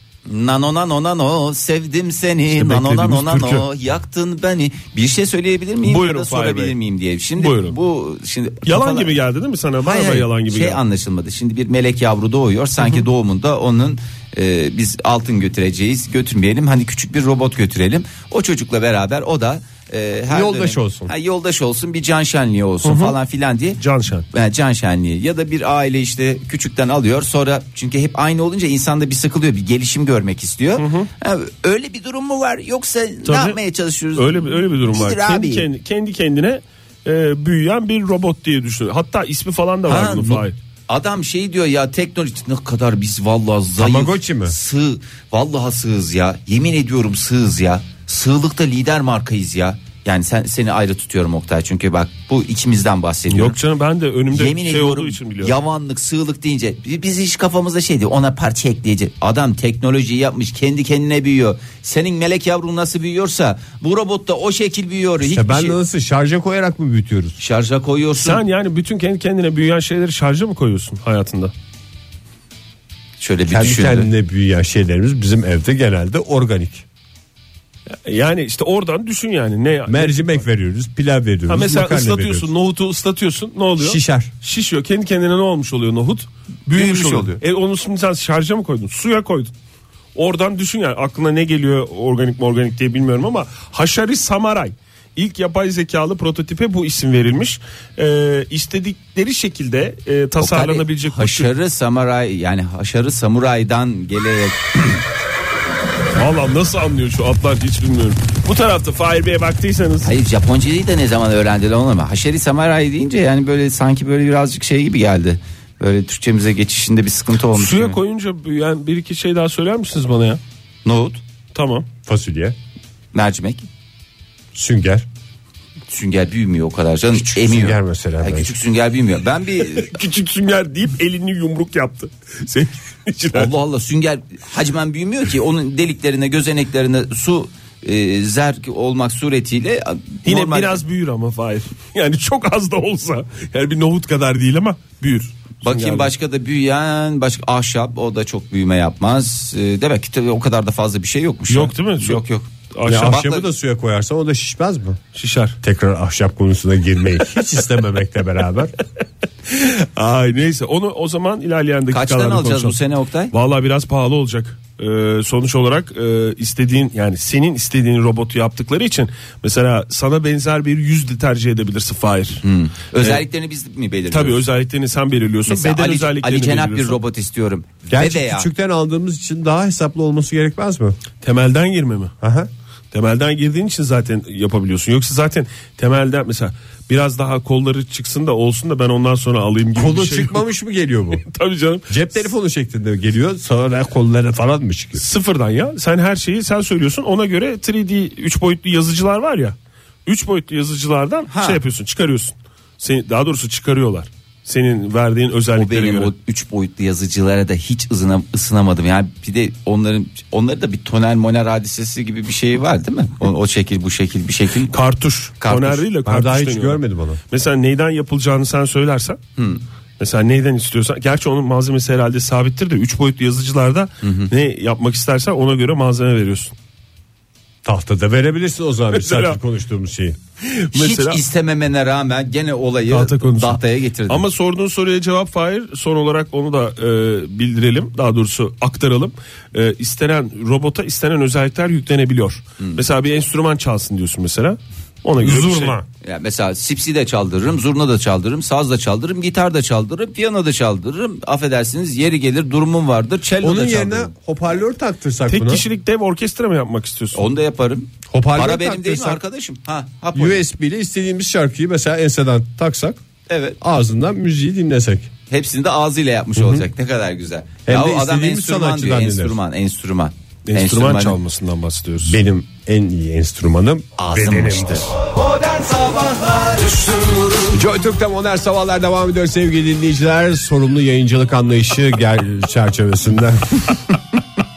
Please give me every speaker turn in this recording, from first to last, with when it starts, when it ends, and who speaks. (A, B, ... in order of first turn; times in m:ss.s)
0:00.2-0:09.1 A
0:02.5-0:03.6 B
0:05.8-0:06.8 B
0:07.4-0:07.8 B
0:08.6-0:10.8 B
0:09.8-0:23.8 A
0:20.3-0:21.1 C
0:22.8-0:23.2 B
0:23.8-0:24.3 B
0:24.3-0:35.7 A
0:30.8-0:31.1 B
0:33.2-0:33.6 B
0:34.1-0:40.5 B
0:39.9-0:53.6 A
0:43.8-0:44.5 C
0:53.3-0:55.5 B
0:54.3-1:05.8 A
1:05.2-1:07.4 C
1:07.4-1:08.4 A
1:08.2-1:11.5 B
1:13.2-1:14.1 A
1:13.5-1:16.8 C
1:17.9-1:20.4 B
1:19.9-1:22.5 C
1:21.5-1:29.5 B
1:23.8-1:24.3 C
1:26.7-1:27.4 A
1:30.2-1:41.5 B
1:40.4-1:45.0 A
1:46.2-1:50.1 B
1:50.0-1:58.0 A
1:57.5-2:00.4 B
2:00.8-2:01.2 A
2:01.5-2:01.9 B
2:02.0-2:02.6 C
2:03.1-2:03.7 A
2:04.5-2:05.0 C
2:05.9-2:09.9 A
2:07.1-2:08.6 C
2:09.6-2:13.5 B
2:13.3-2:20.8 A
2:20.2-2:26.1 B
2:25.6-2:32.5 A
2:31.5-2:32.2 B
2:32.7-2:33.3 B
2:32.8-2:35.0 C
2:33.0-2:33.4 A
2:35.1-2:35.6 B
2:35.6-2:38.7 C
2:39.5-2:42.8 B
2:41.9-2:43.3 A
2:43.3-2:52.4 B
2:52.4-2:54.4 A
2:54.1-2:57.0 B
2:55.5-2:58.5 A
2:57.9-3:01.0 C
3:01.2-3:02.1 B
3:02.2-3:02.5 C
3:02.9-3:10.4 B
3:09.7-3:11.2 C
3:11.2-3:12.1 B
3:11.9-3:15.1 C
3:15.0-3:26.1 B
3:21.3-3:21.6 A
3:25.5-3:34.8 A
3:34.7-3:39.2 B
3:35.4-3:35.8 A
3:36.0-3:37.2 C
3:40.0-3:46.5 B
3:44.0-3:44.3 A
3:47.6-3:50.2 C
3:48.9-3:49.4 B
3:50.4-3:51.2 B
3:50.7-3:54.2 A
3:52.9-4:05.8 B
4:05.2-4:05.8 C
4:06.0-4:14.1 A
4:13.4-4:15.6 C
4:15.3-4:17.2 B
4:17.1-4:20.4 A
4:18.1-4:19.2 C
4:20.1-4:23.0 C
4:23.3-4:23.6 A
4:23.6-4:25.1 C
4:25.3-4:31.2 A
4:27.6-4:29.4 C
4:30.5-4:32.2 B
4:32.0-4:34.9 C
4:34.0-4:36.7 A
4:37.5-4:43.8 C